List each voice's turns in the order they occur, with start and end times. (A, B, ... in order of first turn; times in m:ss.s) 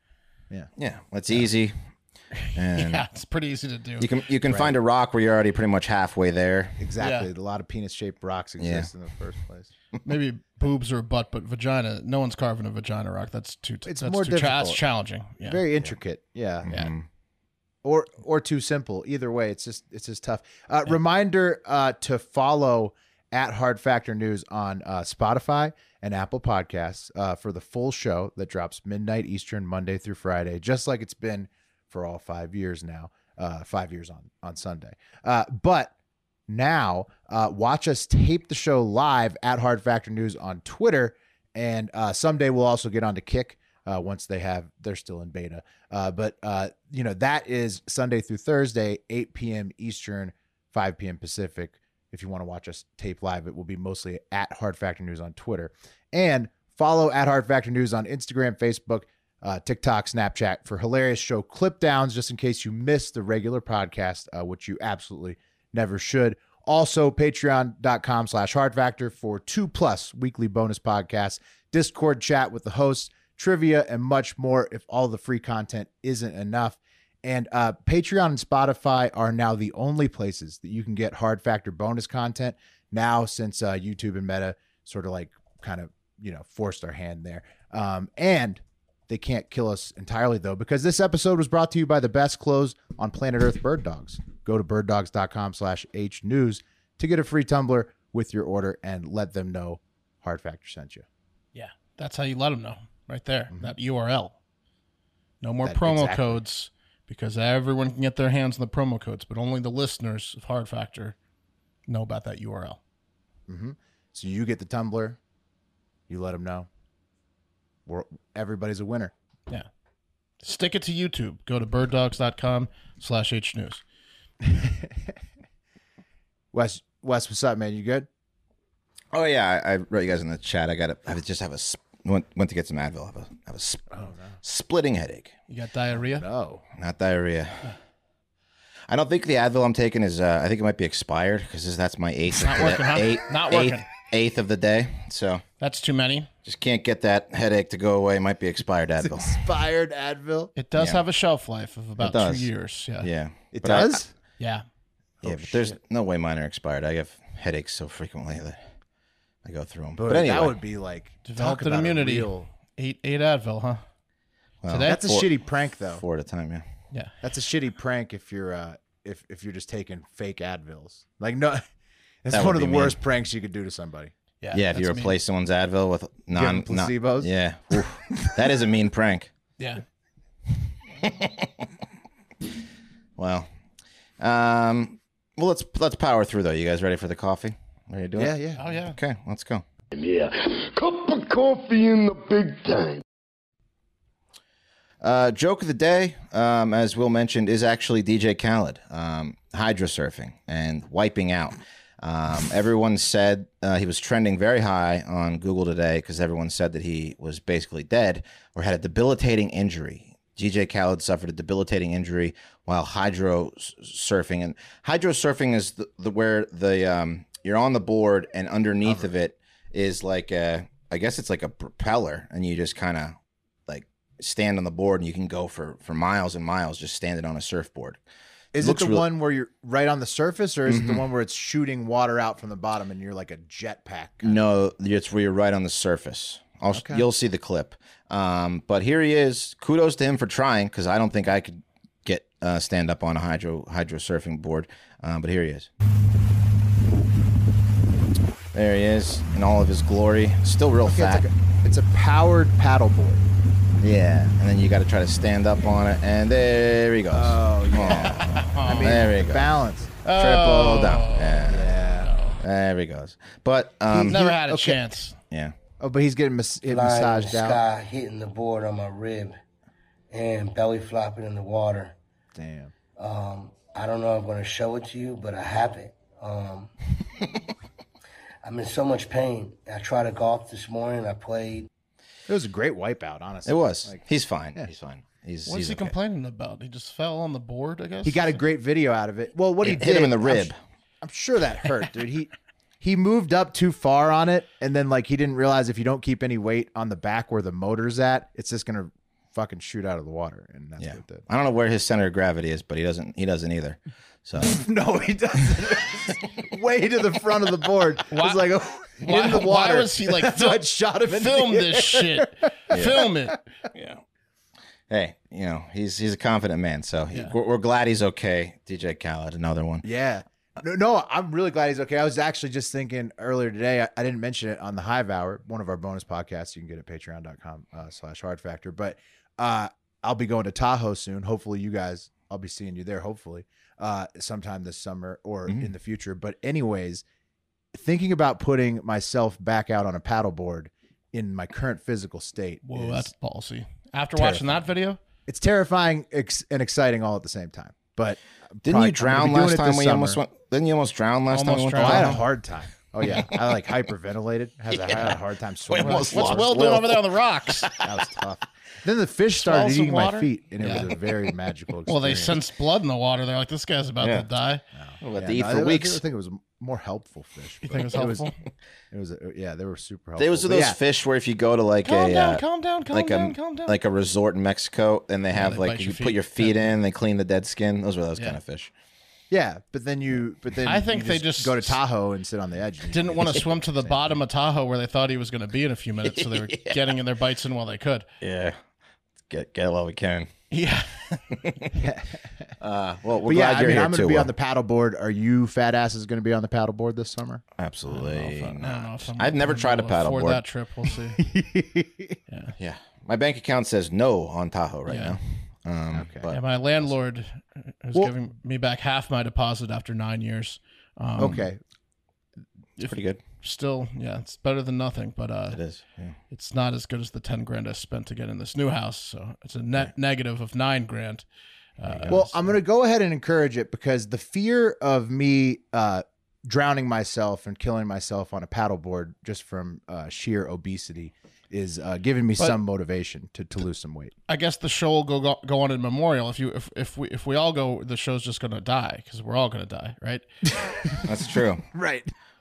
0:00.8-0:01.7 A
0:02.4-0:04.1 B
0:02.5-0:03.0 A
0:04.0-0:06.8 A
0:04.5-0:04.8 C
0:06.8-0:09.7 C
0:07.0-0:07.3 B
0:08.6-0:08.9 A
0:10.0-0:15.6 B
0:13.8-0:14.8 C
0:15.4-0:16.8 C
0:16.6-0:17.0 A
0:17.8-0:35.9 C
0:36.5-1:41.0 C
1:41.5-1:44.3 B
1:45.4-1:51.2 B
1:45.6-1:46.4 C
1:51.9-1:52.8 B
1:53.5-1:55.2 C
1:56.1-1:56.7 C
1:57.8-1:59.1 C
2:00.4-2:03.8 B
2:04.4-2:05.1 C
2:06.5-2:08.1 C
2:09.1-2:15.3 A
2:13.9-2:14.3 C
2:15.5-2:16.2 B
2:16.0-2:16.6 C
2:16.7-2:17.6 A
2:18.9-2:25.4 A
2:22.4-2:23.9 B
2:25.6-2:26.3 B
2:26.4-2:29.4 A
2:29.0-2:30.5 C
2:30.6-2:33.1 B
2:30.7-2:31.0 A
2:32.0-2:34.0 A
2:33.5-2:34.1 C
2:34.4-2:34.6 B
2:35.2-2:35.7 C
2:35.2-2:38.6 A
2:39.4-2:40.6 A
2:40.0-2:42.5 C
2:41.2-2:43.8 B
2:44.6-2:46.6 A
2:44.7-2:45.0 B
2:44.8-2:46.0 C
2:47.2-2:51.6 C
2:52.2-2:54.1 C
2:52.3-2:53.0 A
2:54.4-2:55.2 B
2:54.5-2:59.3 A
2:56.3-2:58.3 C
3:01.0-3:01.7 A
3:03.2-3:03.5 A
3:04.2-3:09.6 A
3:08.2-3:08.6 C
3:08.6-3:09.0 B
3:09.9-3:13.0 D
3:15.0-3:48.0 A
3:38.8-3:39.1 C
3:48.5-3:54.4 C
3:48.5-3:49.1 A
3:50.6-3:51.0 A
3:54.2-4:05.7 A
3:56.7-3:57.0 C
4:08.5-4:11.2 A
4:10.8-4:13.3 C
4:13.8-4:19.5 A
4:17.1-4:19.9 C
4:17.9-4:19.0 B
4:20.0-4:22.4 B
4:20.1-4:21.8 A
4:21.5-4:22.1 C
4:22.4-4:24.2 A
4:23.9-4:24.8 C
4:24.1-4:25.2 B
4:25.3-4:25.6 A
4:25.8-4:27.6 C
4:26.6-4:29.4 E
4:30.1-4:31.9 E
4:32.4-4:32.7 C
4:33.0-4:36.7 E
4:38.4-4:41.7 E
4:42.3-4:44.7 C
4:43.4-4:45.9 A
4:45.4-4:48.4 B
4:48.0-5:01.2 C
4:49.6-4:50.6 A
5:00.8-5:04.6 A
5:04.4-5:13.3 C
5:08.1-5:13.4 B
5:12.7-5:13.0 A
5:13.7-5:14.0 A
5:14.9-5:19.8 A
5:19.8-5:37.0 C
5:35.5-5:35.7 A
5:37.7-5:43.1 C
5:42.6-5:45.0 B
5:44.2-5:44.5 C
5:45.3-5:50.2 C
5:48.6-5:52.2 A
5:51.3-5:52.2 B
5:51.8-5:56.5 C
5:53.0-5:53.4 A
5:54.7-5:55.1 A
5:55.7-5:58.0 A
5:55.8-5:57.7 B
5:57.8-6:02.4 C
5:59.4-6:00.9 B
6:01.8-6:04.6 B
6:04.0-6:04.3 A
6:04.8-6:08.3 C
6:05.0-6:06.0 A
6:07.6-6:08.3 B
6:08.9-6:10.8 C
6:10.2-6:18.7 A
6:11.8-6:13.7 B
6:15.3-6:16.7 B
6:19.3-6:24.2 C
6:20.6-6:21.8 B
6:22.9-6:28.1 B
6:26.0-6:26.9 A
6:28.2-6:28.6 A
6:29.3-6:30.3 A
6:30.5-6:31.6 B
6:31.7-6:32.5 C
6:32.6-6:34.3 A
6:33.2-6:37.4 C
6:37.6-6:40.4 A
6:37.9-6:41.2 B
6:41.2-6:42.2 C
6:42.3-6:42.5 B
6:42.6-6:46.4 A
6:44.9-6:45.2 B
6:45.9-6:46.3 C
6:46.3-6:51.5 B
6:51.2-6:51.6 C
6:52.8-6:55.6 B
6:52.8-6:53.2 A
6:55.5-6:56.2 A
6:56.3-7:01.2 B
7:01.8-7:02.4 B
7:01.9-7:02.2 A
7:02.1-7:14.1 C
7:14.3-7:20.2 B
7:20.5-7:21.1 C
7:21.0-7:21.7 A
7:21.7-7:22.1 C